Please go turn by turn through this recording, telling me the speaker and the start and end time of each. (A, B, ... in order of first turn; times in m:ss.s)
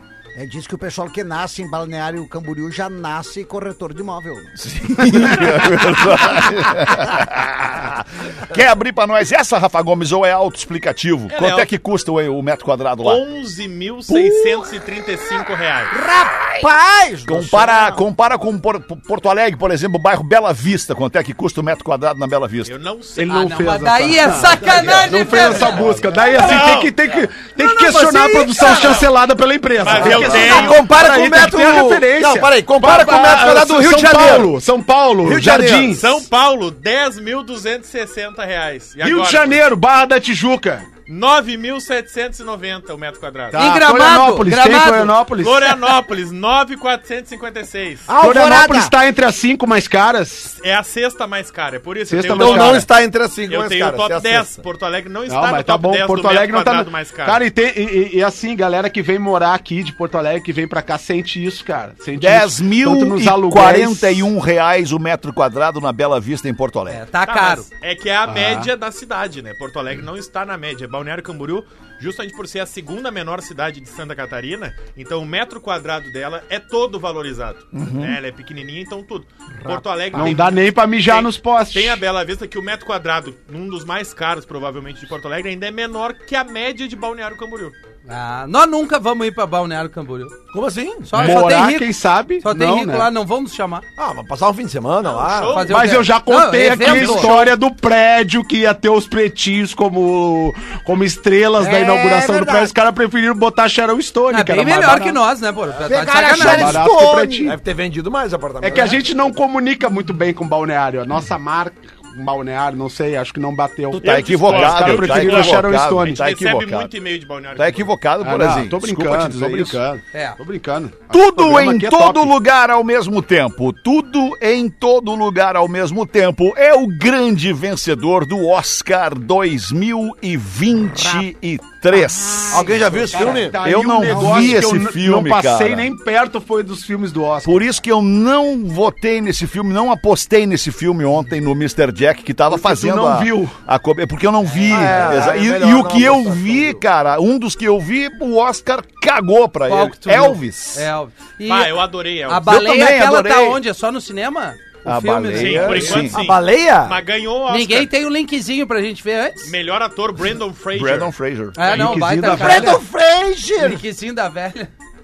0:00.3-0:04.5 A
0:04.6-0:13.2 B
0:11.3-0:11.7 C
0:13.0-0:15.9 C
0:14.1-0:14.4 B
0:15.9-0:18.0 A
0:17.2-0:22.7 B
0:22.6-0:23.6 C
0:23.2-0:36.2 D
0:23.3-0:25.8 E
0:26.3-0:27.0 C
0:27.6-0:28.8 A
0:28.7-0:29.0 C
0:29.8-0:30.8 C
0:30.0-0:34.5 F
0:30.1-0:30.4 B
0:35.2-0:36.0 F
0:35.9-0:39.6 C
0:39.0-0:40.9 D
0:41.1-0:43.6 C
0:43.5-0:45.8 D
0:43.5-0:45.2 E
0:45.4-0:48.1 C
0:48.1-0:48.9 A
0:48.2-0:50.5 D
0:50.5-0:52.9 C
0:52.1-0:52.9 D
0:52.3-0:54.6 F
0:53.4-0:57.4 C
0:55.3-1:04.3 D
1:02.2-1:07.0 B
1:06.9-1:07.7 E
1:07.2-1:27.8 C
1:08.3-1:08.7 D
1:17.7-1:18.2 B
1:20.1-1:22.0 D
1:28.1-1:30.4 E
1:30.5-1:31.3 F
1:31.0-1:33.8 E
1:31.1-1:33.1 D
1:34.0-1:35.6 F
1:35.0-1:36.0 C
1:35.5-1:37.4 E
1:35.7-1:45.2 D
1:36.9-1:37.5 F
1:41.6-1:42.7 A
1:44.3-1:46.8 E
1:45.8-1:47.5 A
1:46.3-1:47.5 D
1:47.4-1:49.0 F
1:48.6-1:56.2 D
1:53.9-1:56.9 B
1:54.0-1:57.9 C
1:57.6-1:59.8 B
1:58.2-2:02.3 D
2:00.1-2:00.4 E
2:01.1-2:12.9 B
2:12.5-2:13.6 F
2:12.9-2:17.6 D
2:13.5-2:15.9 B
2:14.1-2:14.4 A
2:17.4-2:30.9 B
2:22.5-2:23.5 D
2:24.5-2:24.9 E
2:24.6-2:26.8 F
2:24.7-2:25.1 D
2:29.7-2:36.1 E
2:31.4-2:32.5 C
2:32.4-2:33.6 B
2:34.8-2:36.2 B
2:35.3-2:37.9 C
2:36.0-2:37.0 F
2:37.5-2:39.5 E
2:39.4-2:41.1 C
2:40.7-2:41.9 B
2:41.5-2:42.8 E
2:41.6-2:42.8 D
2:42.2-2:43.8 A
2:43.6-2:44.7 E